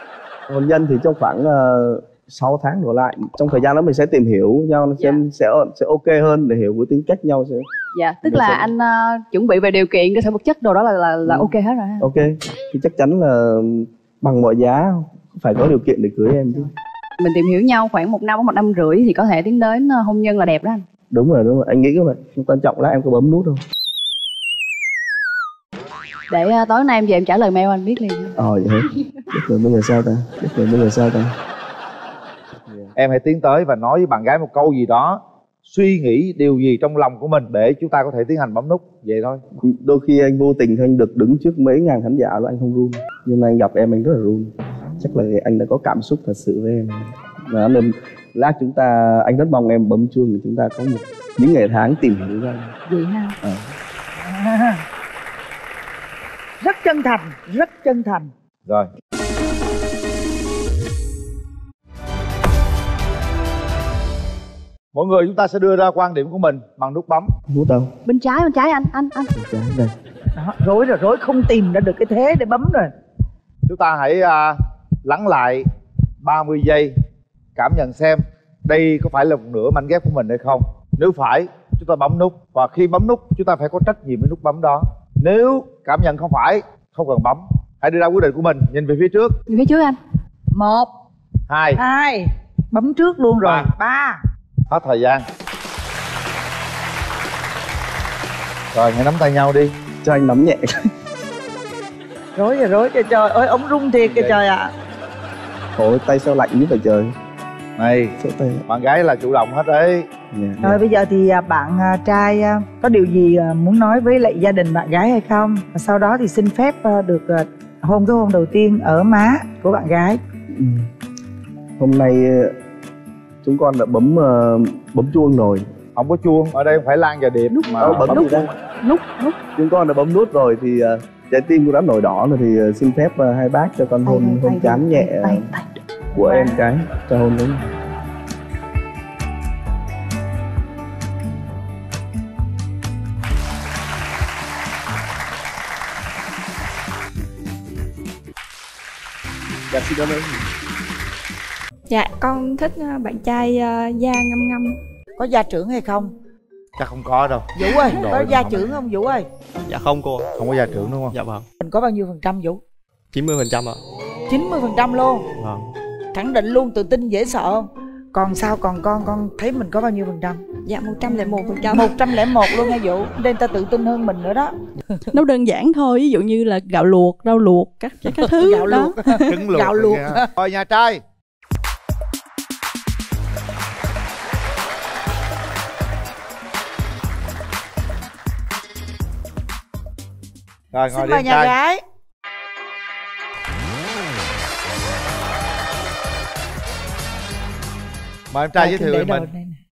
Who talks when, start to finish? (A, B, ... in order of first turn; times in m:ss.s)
0:00.5-0:07.6 A
0:05.0-0:05.2 B
0:07.9-0:12.1 B
0:08.2-0:08.7 A
0:11.2-0:16.7 A
0:17.2-0:20.8 B
0:21.1-0:23.6 A
0:26.3-0:28.4 B
0:28.4-0:31.3 A
0:33.0-0:39.4 C
0:39.6-0:52.7 A
0:52.9-0:53.3 B
0:53.4-0:53.7 A
0:54.2-0:54.8 D
0:56.6-0:58.3 D
1:04.9-1:07.3 C
1:07.5-1:07.9 A
1:08.0-1:09.3 B
1:09.3-1:09.9 A
1:10.4-1:12.9 D
1:13.7-1:15.6 C
1:16.2-1:16.9 C
1:17.6-1:29.3 C
1:29.5-1:30.0 B
1:30.5-1:30.9 D
1:31.5-1:31.8 C
1:31.8-1:34.2 D
1:33.4-1:33.7 C
1:34.7-1:35.2 C
1:38.7-1:39.7 C
1:40.0-1:40.9 A
1:42.4-1:44.7 D
1:45.8-1:47.1 A
1:47.8-1:48.2 C
1:48.2-1:48.6 A
1:48.7-1:50.0 C
1:50.3-1:50.8 A
1:50.6-2:00.2 D
2:00.5-2:00.9 A
2:01.8-2:02.5 A
2:03.4-2:05.7 A
2:06.0-2:08.4 C
2:07.5-2:09.4 B
2:07.6-2:08.5 A
2:09.5-2:15.5 A
2:14.0-2:15.6 B
2:16.1-2:17.6 A
2:16.2-2:16.6 D
2:29.7-2:30.4 A
2:31.9-2:34.8 E
2:35.2-2:36.1 D
2:36.8-2:38.6 C
2:37.6-2:39.2 D
2:39.7-2:40.3 F
2:40.4-2:41.2 C
2:41.1-2:41.4 F
2:41.6-2:42.6 D
2:43.1-2:43.8 F
2:44.3-2:45.2 D
2:45.4-2:45.6 F
2:46.1-2:50.4 D
2:50.6-2:52.5 E
2:51.7-2:55.0 D
2:55.1-2:59.2 G
2:58.2-3:00.3 D
2:59.2-3:01.0 C
3:10.7-3:11.5 C
3:10.9-3:11.8 D
3:18.3-3:19.3 C
3:18.6-3:19.6 D